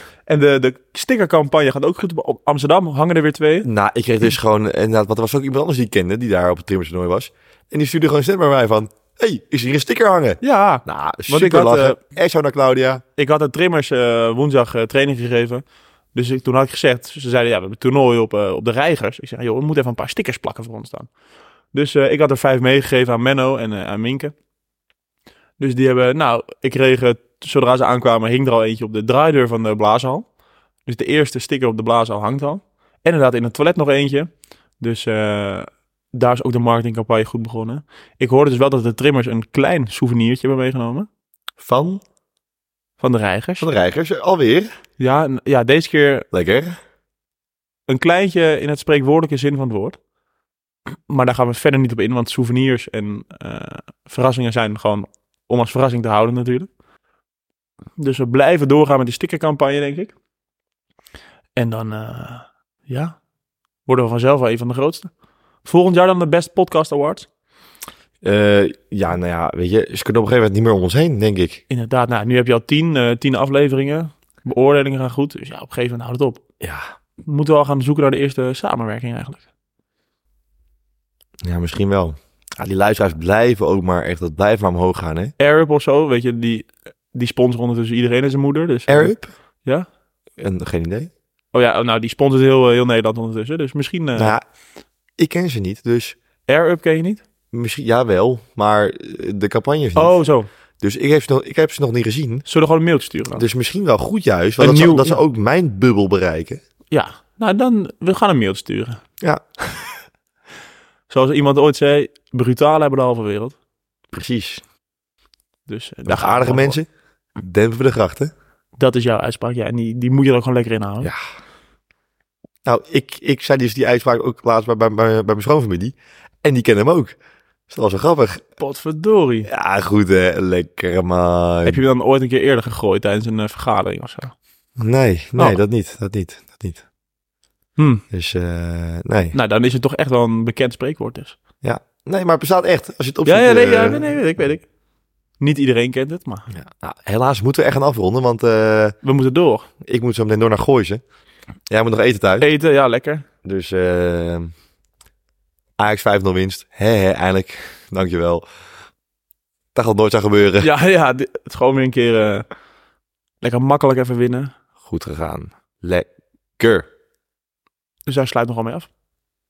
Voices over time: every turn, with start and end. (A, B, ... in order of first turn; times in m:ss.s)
0:00.3-0:03.7 A
0:03.6-0:13.0 B
0:10.4-0:12.0 A
0:13.2-0:21.1 A
0:21.7-0:24.3 A
0:25.6-0:30.3 A
0:30.9-0:41.1 A
0:41.6-0:42.0 B
0:43.0-0:43.7 A
0:43.6-0:44.7 B
0:45.0-0:46.3 A
0:46.3-0:46.8 B
0:47.9-0:50.0 A
0:51.1-0:56.7 A
0:58.0-1:00.1 A
1:01.6-1:03.2 A
1:03.9-1:05.1 A
1:05.6-1:07.3 A
1:08.2-1:11.6 B
1:11.7-1:16.4 A
1:16.6-1:16.9 B
1:17.2-1:19.4 A
1:21.4-1:25.4 B
1:25.4-1:29.9 A
1:28.9-1:29.3 B
1:30.4-1:31.1 B
1:31.5-1:34.4 A
1:34.2-1:34.4 B
1:35.2-1:36.2 B
1:36.5-1:37.2 A
1:37.5-1:40.2 B
1:40.0-1:40.5 A
1:40.8-1:42.4 B
1:42.5-1:43.4 A
1:43.4-1:46.6 B
1:44.6-1:45.2 A
1:46.9-1:49.0 A
1:51.1-1:53.6 A
1:54.1-1:54.6 B
1:55.7-1:56.8 A
1:56.0-1:58.3 B
1:58.8-2:01.1 A
2:02.7-2:07.2 B
2:07.7-2:08.6 B
2:08.6-2:09.5 A
2:09.4-2:11.8 B
2:11.6-2:14.3 A
2:14.8-2:16.8 B
2:17.8-2:18.0 A
2:18.1-2:19.4 B
2:19.3-2:21.4 A
2:21.6-2:24.1 B
2:23.2-2:24.7 A
2:25.4-2:26.5 A
2:26.5-2:29.0 B
2:29.0-2:29.7 A
2:29.8-2:31.0 B
2:31.7-2:32.5 B
2:32.4-2:33.2 A
2:33.4-2:34.5 B
2:35.8-2:38.4 B
2:39.7-2:40.7 B
2:40.6-2:42.4 A
2:43.4-2:44.6 A
2:44.8-2:46.9 B
2:48.1-2:48.9 A